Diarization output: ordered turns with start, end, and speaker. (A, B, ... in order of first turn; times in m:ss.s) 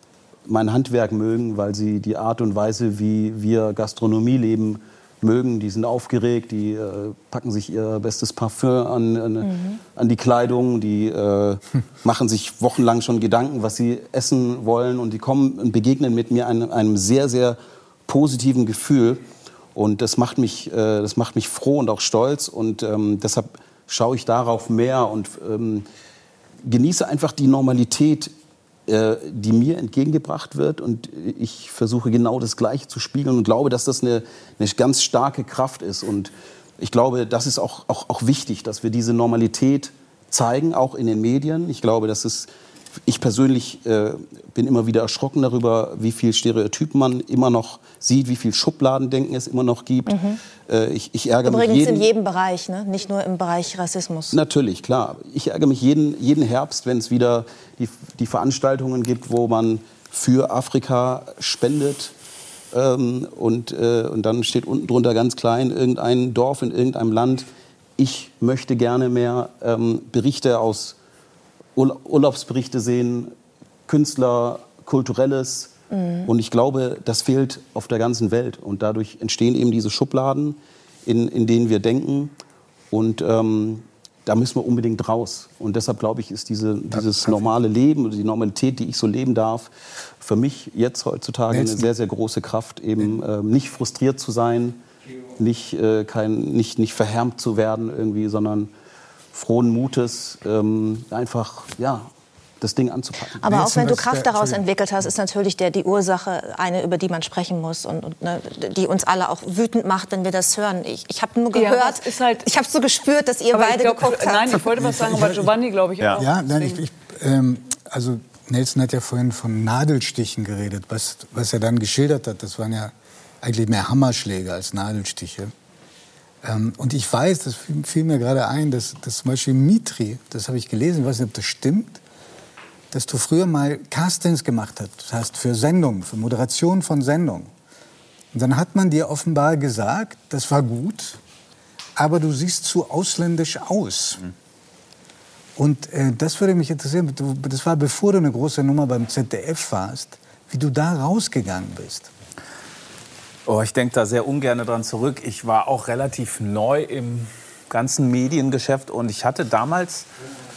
0:00.5-0:19.2 A
0:19.8-0:25.8 A
0:26.6-0:28.3 A
0:28.9-0:42.5 A
0:43.1-0:52.1 A
0:50.1-0:50.4 B
0:51.4-0:54.4 B
0:54.3-1:02.1 A
1:02.7-1:11.0 A
1:11.8-1:13.3 A
1:13.9-1:15.7 A
1:15.9-1:16.3 B
1:16.3-1:22.3 A
1:22.9-1:29.7 A
1:27.2-1:27.4 C
1:30.2-1:34.8 A
1:31.5-1:31.8 C
1:35.4-1:38.7 A
1:39.3-1:42.0 A
1:42.6-1:43.4 A
1:43.4-1:54.6 B
1:43.4-1:44.6 C
1:51.5-1:52.5 D
1:53.5-1:56.8 D
1:56.2-2:05.5 C
2:06.4-2:12.0 C
2:12.9-2:17.5 C
2:18.3-2:21.2 C
2:22.0-2:24.3 C
2:25.6-2:32.1 C
2:33.5-2:40.1 E